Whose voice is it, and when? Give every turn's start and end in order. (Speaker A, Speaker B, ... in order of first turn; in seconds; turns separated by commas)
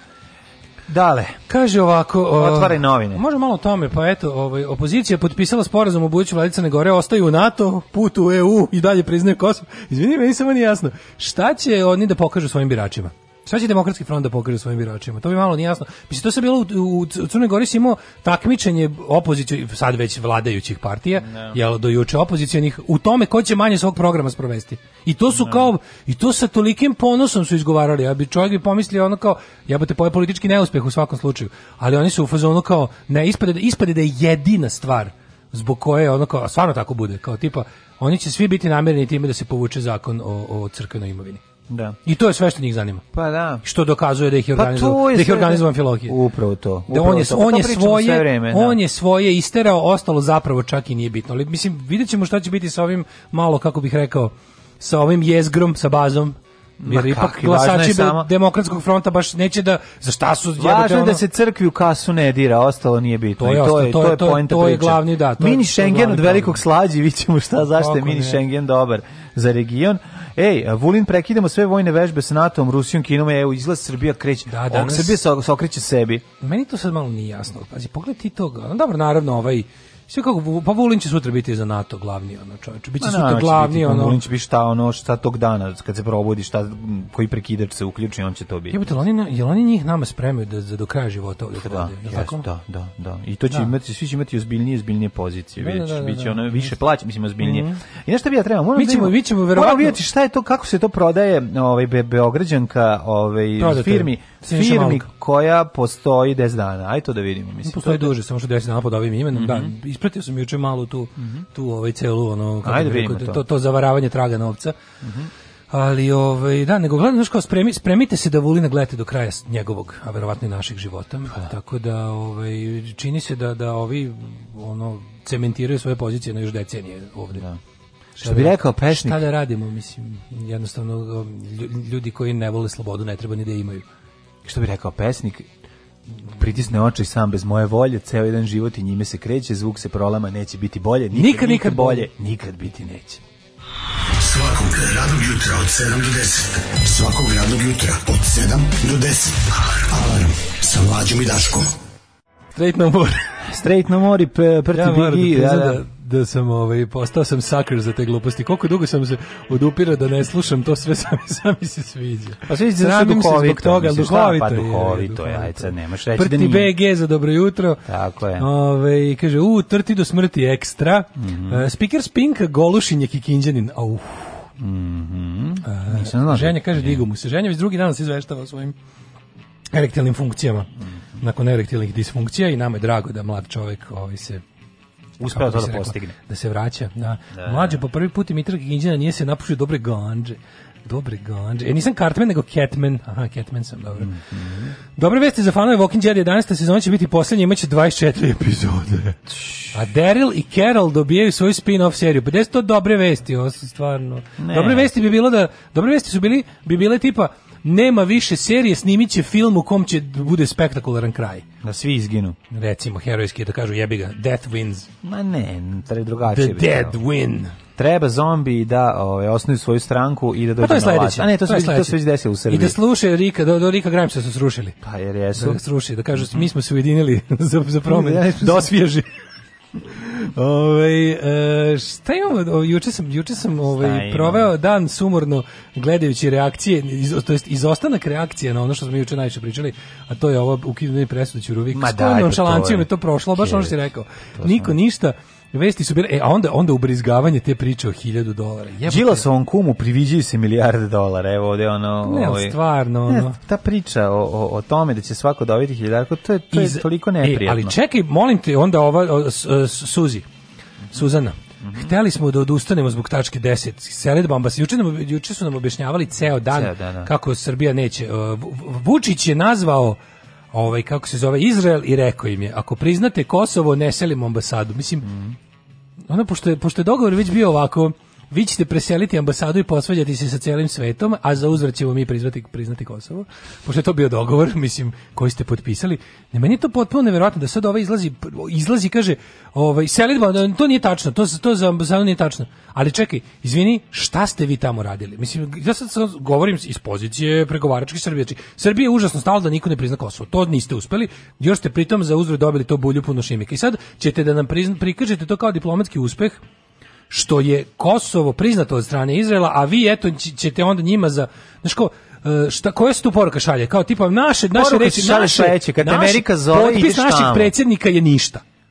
Speaker A: 0.9-1.4, Speaker B: 1.5-41.4, Speaker A: 2.4-3.2, Speaker A: 21.2-21.6, Speaker A: 25.4-25.7, Speaker A: 41.7-42.0, Speaker B: 42.0-43.0, Speaker A: 43.1-43.6, Speaker B: 43.6-46.1, Speaker A: 44.5-48.8, Speaker B: 46.9-61.2, Speaker A: 56.8-58.3, Speaker A: 60.6-76.2, Speaker B: 63.4-66.6, Speaker B: 67.7-68.4, Speaker B: 74.5-75.2, Speaker B: 76.4-84.2, Speaker A: 83.0-88.8, Speaker B: 88.7-92.4, Speaker A: 91.6-108.1, Speaker B: 95.6-96.7, Speaker B: 97.4-97.8, Speaker B: 98.7-100.0, Speaker B: 103.6-105.1, Speaker B: 107.6-114.8, Speaker A: 109.3-109.7, Speaker A: 111.2-111.4, Speaker A: 112.6-113.4, Speaker A: 115.0-115.3, Speaker B: 115.7-127.4, Speaker A: 127.3-127.6, Speaker B: 128.2-133.8, Speaker A: 128.2-129.2, Speaker A: 134.4-135.5, Speaker A: 136.3-143.2, Speaker B: 141.1-142.1, Speaker C: 144.1-151.7, Speaker B: 152.5-153.3, Speaker A: 153.4-155.8, Speaker B: 154.7-167.8, Speaker A: 162.5-166.7, Speaker A: 167.8-168.5, Speaker B: 168.4-174.4, Speaker A: 171.2-171.6, Speaker A: 174.6-177.0, Speaker B: 175.6-178.7, Speaker B: 179.7-180.7, Speaker B: 181.2-184.4, Speaker A: 185.2-186.1, Speaker B: 185.3-194.1, Speaker A: 187.3-187.8, Speaker A: 194.0-194.7, Speaker B: 194.9-199.2, Speaker B: 199.7-211.4, Speaker A: 204.4-204.9, Speaker A: 211.6-212.4, Speaker B: 212.5-214.9, Speaker A: 215.0-217.0, Speaker B: 216.3-217.5, Speaker A: 217.8-222.8, Speaker B: 220.6-224.8, Speaker A: 224.8-225.6, Speaker B: 225.3-229.1, Speaker A: 227.9-228.7, Speaker B: 230.0-249.2, Speaker A: 233.7-234.5, Speaker A: 241.7-243.8, Speaker A: 244.4-244.8, Speaker A: 248.8-252.6, Speaker B: 252.0-253.4, Speaker A: 253.1-257.7, Speaker B: 256.5-260.2, Speaker B: 260.9-270.0, Speaker A: 261.6-261.9, Speaker A: 266.5-267.1, Speaker B: 270.5-275.1, Speaker A: 275.0-275.3, Speaker B: 276.1-306.4, Speaker B: 307.1-318.4, Speaker A: 314.5-317.5